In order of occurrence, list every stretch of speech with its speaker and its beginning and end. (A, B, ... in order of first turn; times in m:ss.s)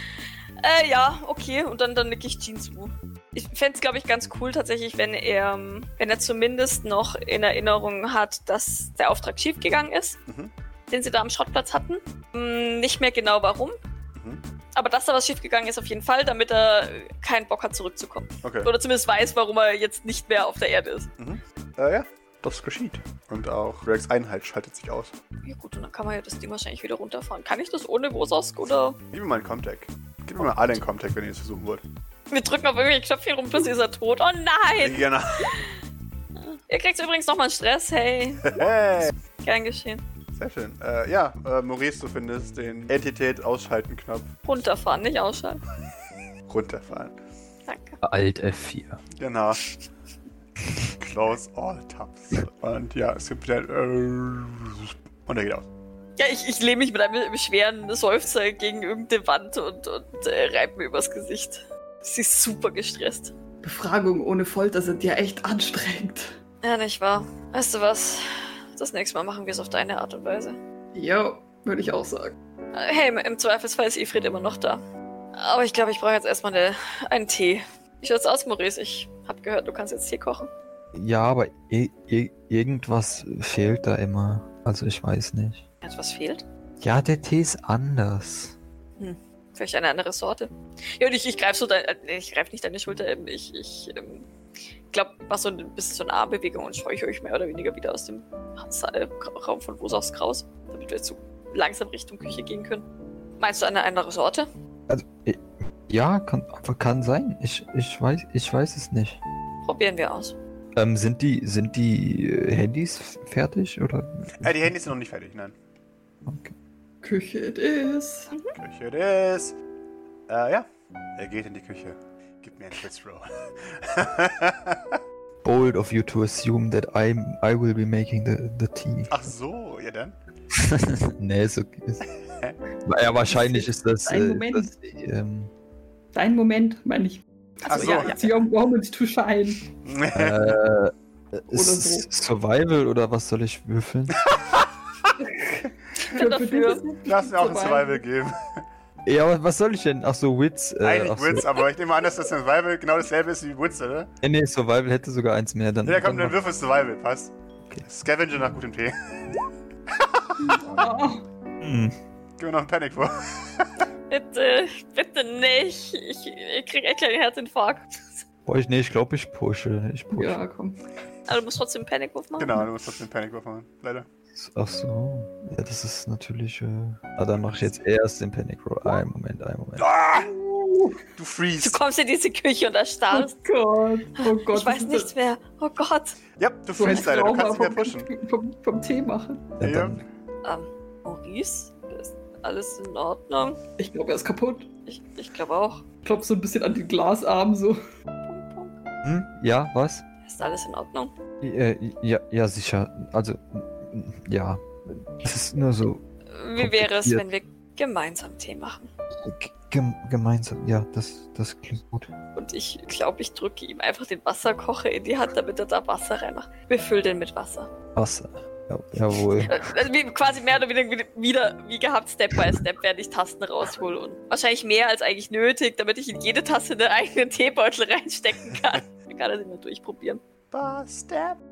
0:00.6-0:10.2 A
0:10.3-0:10.5 B
0:10.9-0:13.8 A
0:14.2-0:14.4 B
0:14.8-0:21.1 A
0:18.4-0:18.7 B
0:21.2-0:25.2 B
0:25.4-0:29.0 A
0:29.1-0:31.8 B
0:32.3-0:35.8 A
0:34.8-0:35.6 B
0:36.7-0:38.6 A
0:38.4-0:39.1 B
0:39.4-0:40.0 A
0:40.4-0:44.3 B
0:44.4-0:45.6 A
0:46.5-0:47.2 B
0:47.7-0:48.0 A
0:48.0-0:49.0 C
0:49.2-0:49.6 B
0:51.0-0:55.7 B
0:56.2-1:03.3 A
1:03.6-1:06.4 D
1:06.6-1:10.6 A
1:10.9-1:12.3 D
1:12.7-1:14.8 A
1:15.4-1:20.5 A
1:20.9-1:25.6 C
1:25.8-1:26.4 A
1:26.8-1:28.6 C
1:29.0-1:34.3 A
1:34.9-1:42.9 A
1:43.4-1:44.5 A
1:44.9-1:49.2 C
1:49.6-1:50.4 A
1:50.8-1:54.6 C
1:54.4-1:55.6 B
1:56.3-1:56.5 C
1:57.0-1:58.3 D
1:58.3-1:58.6 A
1:58.6-1:59.6 B
2:00.3-2:05.0 B
2:05.4-2:09.2 C
2:09.1-2:10.2 B
2:10.5-2:12.1 C
2:12.3-2:12.6 B
2:12.9-2:15.5 C
2:13.3-2:14.7 D
2:16.1-2:19.7 D
2:17.6-2:18.3 B
2:17.7-2:18.3 A
2:19.8-2:20.6 B
2:20.1-2:24.2 C
2:21.5-2:22.1 D
2:24.3-2:24.7 B
2:25.2-2:28.0 D
2:26.1-2:26.8 A
2:27.0-2:28.7 B
2:29.1-2:31.6 C
2:30.8-2:34.1 B
2:34.2-2:36.4 C
2:35.8-2:39.0 B
2:39.9-2:41.0 B
2:40.4-2:41.2 D
2:41.6-2:42.0 C
2:42.4-2:43.9 B
2:44.1-2:48.1 A
2:48.5-2:50.4 C
2:50.1-2:50.8 D
2:51.3-2:52.7 A
2:52.4-2:54.1 B
2:54.4-2:59.9 C
2:59.8-3:00.3 B
3:00.1-3:01.0 D
3:01.2-3:01.8 B
3:01.6-3:03.4 A
3:03.1-3:05.1 D
3:04.2-3:06.2 A
3:06.4-3:08.1 B
3:06.7-3:09.6 D
3:09.6-3:10.0 C
3:09.6-3:10.0 B
3:10.4-3:13.6 A
3:13.8-3:14.7 D
3:14.9-3:15.8 A
3:16.0-3:17.8 D
3:18.3-3:18.7 D
3:18.3-3:18.6 A
3:19.0-3:20.0 C
3:20.2-3:21.1 A
3:21.4-3:26.0 C
3:26.3-3:28.9 A
3:26.6-3:27.2 C
3:29.2-3:32.1 C
3:32.4-3:37.7 A
3:38.0-3:39.6 C
3:39.4-3:50.2 A
3:50.5-3:51.4 B